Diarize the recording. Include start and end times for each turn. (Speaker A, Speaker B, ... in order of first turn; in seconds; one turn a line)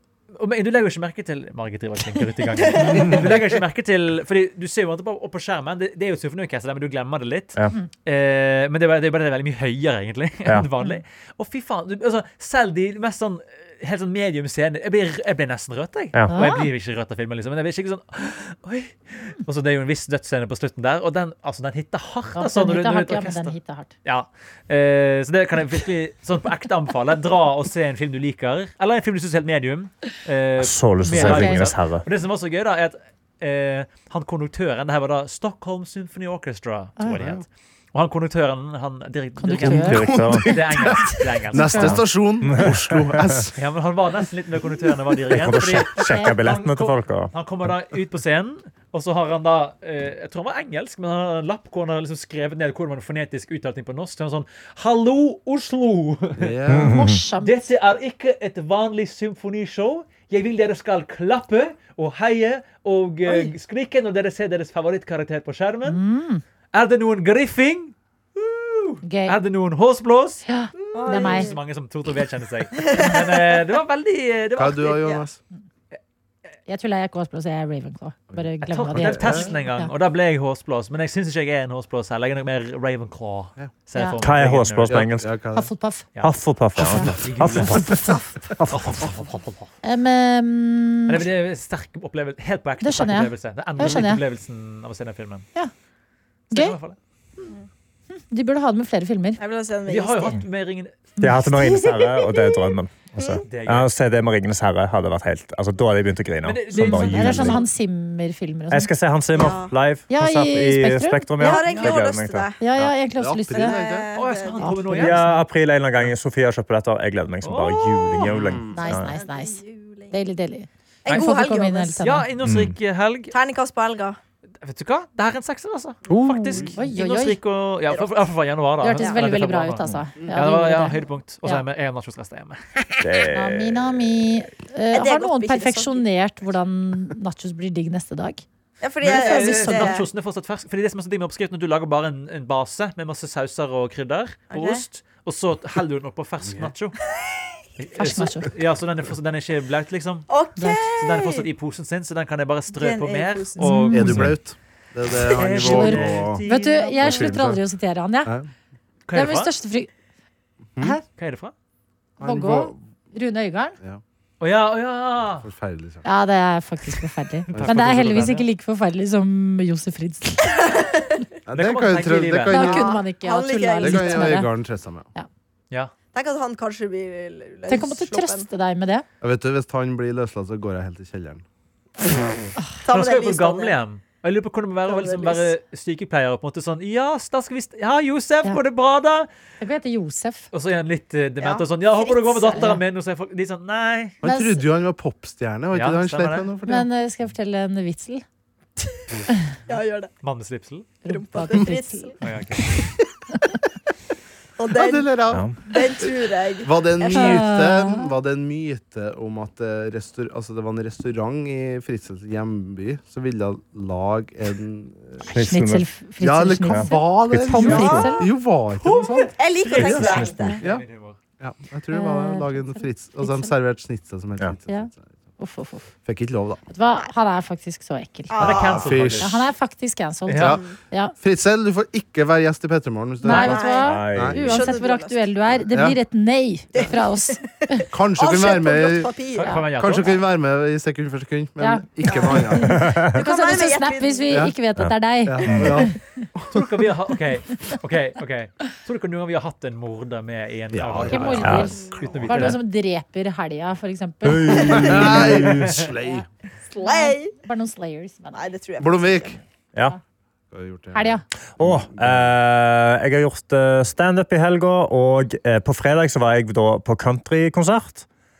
Speaker A: 0.3-41.9
Speaker B: 2.6-3.1
Speaker C: 16.3-16.7
Speaker C: 22.4-23.9
Speaker D: 30.6-32.0
Speaker C: 31.1-31.7
Speaker E: 37.1-37.4
Speaker C: 39.4-40.0
Speaker E: 39.6-43.6
Speaker D: 39.7-40.6
Speaker C: 41.5-42.0
Speaker D: 41.8-43.3
Speaker A: 43.6-56.6
Speaker D: 45.3-47.3
Speaker C: 46.0-46.4
Speaker E: 56.4-57.0
Speaker D: 56.7-57.2
Speaker C: 56.9-57.7
Speaker A: 57.4-66.0
Speaker B: 63.3-63.5
Speaker C: 65.8-66.4
Speaker A: 66.7-75.0
Speaker C: 69.0-69.4
Speaker C: 70.5-71.5
Speaker B: 70.8-71.6
Speaker B: 72.8-73.5
Speaker E: 74.6-75.4
Speaker C: 76.7-79.9
Speaker E: 78.3-79.5
Speaker A: 78.6-85.1
Speaker C: 84.0-84.2
Speaker D: 84.2-85.3
Speaker E: 84.9-85.7
Speaker C: 85.5-86.1
Speaker D: 86.2-89.2
Speaker C: 86.8-87.1
Speaker A: 87.0-88.0
Speaker C: 87.8-88.3
Speaker A: 88.7-89.7
Speaker C: 89.8-91.2
Speaker A: 91.1-95.5
Speaker C: 92.8-94.2
Speaker A: 96.5-97.0
Speaker C: 96.5-96.8
Speaker C: 98.1-99.4
Speaker B: 99.4-100.4
Speaker A: 99.9-101.1
Speaker D: 101.2-107.7
Speaker B: 101.8-102.5
Speaker B: 103.2-103.4
Speaker A: 103.5-103.9
Speaker A: 106.4-107.7
Speaker C: 106.7-108.9
Speaker D: 108.7-112.9
Speaker B: 109.3-109.8
Speaker C: 110.1-111.7
Speaker B: 111.4-112.6
Speaker C: 112.6-113.8
Speaker E: 113.2-114.1
Speaker B: 113.5-114.9
Speaker A: 114.2-115.2
Speaker C: 114.6-115.4
Speaker D: 115.0-119.1
Speaker A: 117.4-118.3
Speaker E: 118.3-118.9
Speaker C: 118.7-122.3
Speaker B: 118.8-120.2
Speaker B: 121.0-122.0
Speaker A: 122.0-123.3
Speaker D: 122.4-122.8
Speaker B: 123.3-124.2
Speaker A: 124.6-132.8
Speaker D: 126.1-126.7
Speaker C: 126.7-127.4
Speaker B: 127.9-128.2
Speaker C: 128.8-131.6
Speaker D: 133.0-134.2
Speaker C: 133.3-138.4
Speaker B: 134.9-136.1
Speaker B: 138.8-140.1
Speaker A: 139.0-147.0
Speaker C: 139.2-139.9
Speaker B: 144.5-144.8
Speaker A: 147.8-154.2
Speaker C: 148.0-148.5
Speaker B: 150.3-151.5
Speaker C: 150.6-150.8
Speaker B: 152.7-153.9
Speaker C: 153.6-154.3
Speaker E: 153.9-156.4
Speaker D: 154.0-154.3
Speaker A: 155.3-157.4
Speaker C: 155.6-158.3
Speaker E: 157.0-157.6
Speaker A: 159.1-159.5
Speaker C: 159.1-159.9
Speaker A: 161.2-161.5
Speaker E: 162.2-162.8
Speaker C: 162.2-163.8
Speaker A: 164.4-165.5
Speaker E: 165.4-166.1
Speaker C: 166.0-170.6
Speaker E: 167.5-168.4
Speaker A: 167.5-168.5
Speaker B: 170.6-171.2
Speaker E: 171.5-173.0
Speaker A: 171.5-172.7
Speaker C: 172.5-174.5
Speaker B: 172.5-174.4
Speaker E: 173.8-175.1
Speaker B: 176.1-178.5
Speaker C: 177.7-179.1
Speaker E: 179.2-181.4
Speaker B: 182.8-183.8
Speaker A: 182.9-189.3
Speaker B: 184.9-185.5
Speaker C: 189.6-190.5
Speaker A: 190.5-194.2
Speaker B: 191.4-192.8
Speaker C: 192.5-192.8
Speaker E: 194.2-196.9
Speaker C: 194.2-194.6
Speaker A: 195.7-196.5
Speaker C: 196.7-198.2
Speaker B: 199.7-200.1
Speaker A: 200.2-200.9
Speaker C: 201.0-202.2
Speaker B: 201.1-202.8
Speaker A: 202.2-202.8
Speaker B: 204.6-207.5
Speaker E: 204.7-205.5
Speaker D: 205.3-205.6
Speaker E: 206.6-215.2
Speaker C: 207.1-208.1
Speaker C: 215.2-218.3
Speaker D: 215.3-215.9
Speaker E: 216.2-219.3
Speaker D: 216.7-218.1
Speaker A: 218.9-221.2
Speaker B: 219.3-220.6
Speaker D: 219.8-220.5
Speaker E: 220.6-220.9
Speaker E: 221.4-225.1
Speaker C: 221.9-223.5
Speaker C: 224.7-225.9
Speaker E: 226.1-226.6
Speaker C: 226.7-228.4
Speaker B: 228.3-229.1
Speaker A: 228.4-229.4
Speaker E: 228.7-229.4
Speaker C: 229.2-231.1
Speaker A: 230.3-230.6
Speaker E: 230.3-230.7
Speaker E: 231.2-234.7
Speaker C: 233.2-237.8
Speaker B: 233.2-235.2
Speaker D: 233.8-234.6
Speaker E: 235.7-236.0
Speaker B: 236.8-237.6
Speaker E: 237.9-239.2
Speaker B: 238.2-239.5
Speaker A: 239.3-240.2
Speaker E: 239.8-242.9
Speaker C: 241.6-246.0
Speaker B: 242.1-244.4
Speaker D: 242.7-243.2
Speaker E: 244.3-244.6
Speaker E: 245.2-246.6
Speaker D: 245.4-245.9
Speaker A: 246.5-252.6
Speaker E: 250.7-252.5
Speaker C: 251.1-255.2
Speaker D: 251.4-251.8
Speaker D: 254.2-255.7
Speaker E: 254.5-256.3
Speaker A: 255.3-255.9
Speaker B: 256.7-257.3
Speaker C: 256.8-258.5
Speaker B: 258.4-259.4
Speaker E: 258.8-259.4
Speaker E: 260.5-262.3
Speaker C: 260.9-261.2
Speaker D: 261.6-268.1